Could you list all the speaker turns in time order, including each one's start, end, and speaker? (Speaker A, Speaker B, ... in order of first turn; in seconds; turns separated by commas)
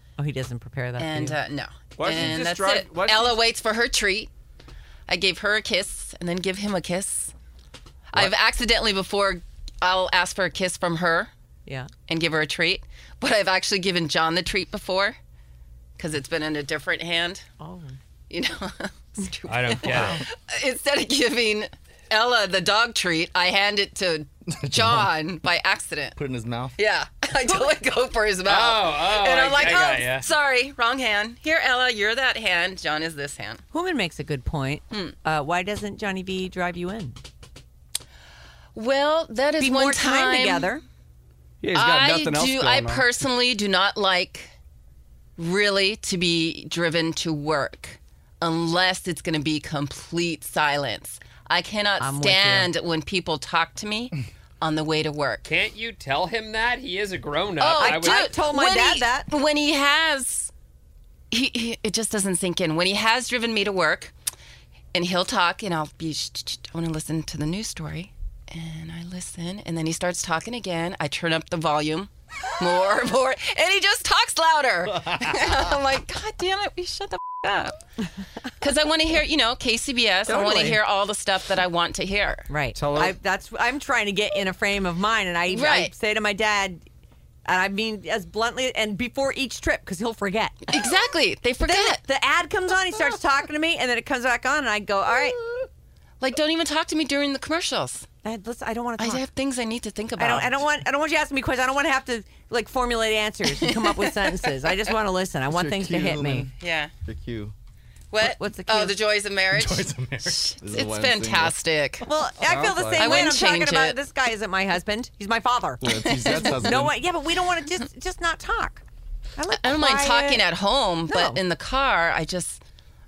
Speaker A: 0.2-1.4, Speaker B: 1.0-4.3, Speaker C: 2.0-3.4, Speaker B: 5.1-7.3, Speaker B: 8.1-11.3, Speaker B: 12.1-15.2, Speaker B: 16.0-17.5, Speaker A: 17.6-18.0, Speaker B: 18.3-26.2, Speaker D: 19.5-20.2, Speaker A: 19.9-20.2, Speaker E: 24.5-25.1, Speaker E: 26.2-26.8, Speaker B: 26.8-33.6, Speaker D: 28.5-30.3, Speaker A: 33.7-37.2, Speaker B: 34.9-35.2, Speaker B: 38.8-40.7, Speaker A: 39.6-40.8, Speaker C: 41.6-43.2, Speaker B: 41.7-44.5, Speaker B: 45.4-55.5, Speaker A: 52.0-52.7, Speaker D: 55.4-58.4, Speaker B: 57.6-60.5, Speaker A: 57.8-59.3, Speaker B: 61.3-64.1, Speaker B: 64.9-77.8, Speaker E: 75.1-75.5, Speaker B: 78.6-82.5, Speaker A: 80.3-80.8, Speaker A: 82.5-86.8, Speaker C: 82.8-83.2, Speaker B: 85.5-85.9, Speaker A: 87.5-90.9, Speaker B: 90.7-92.0, Speaker A: 91.6-95.4, Speaker B: 96.2-98.1, Speaker A: 98.2-99.2, Speaker B: 99.0-100.6, Speaker A: 100.2-106.5, Speaker B: 103.6-104.2, Speaker E: 105.5-107.5, Speaker B: 106.6-106.9, Speaker B: 108.1-112.1, Speaker A: 108.2-109.0, Speaker E: 109.5-111.6, Speaker A: 112.0-115.8, Speaker C: 112.5-113.3, Speaker B: 113.0-114.0, Speaker E: 115.8-117.0, Speaker B: 115.9-116.8, Speaker A: 116.4-118.8, Speaker A: 119.4-120.5, Speaker B: 119.5-122.6, Speaker A: 121.1-121.4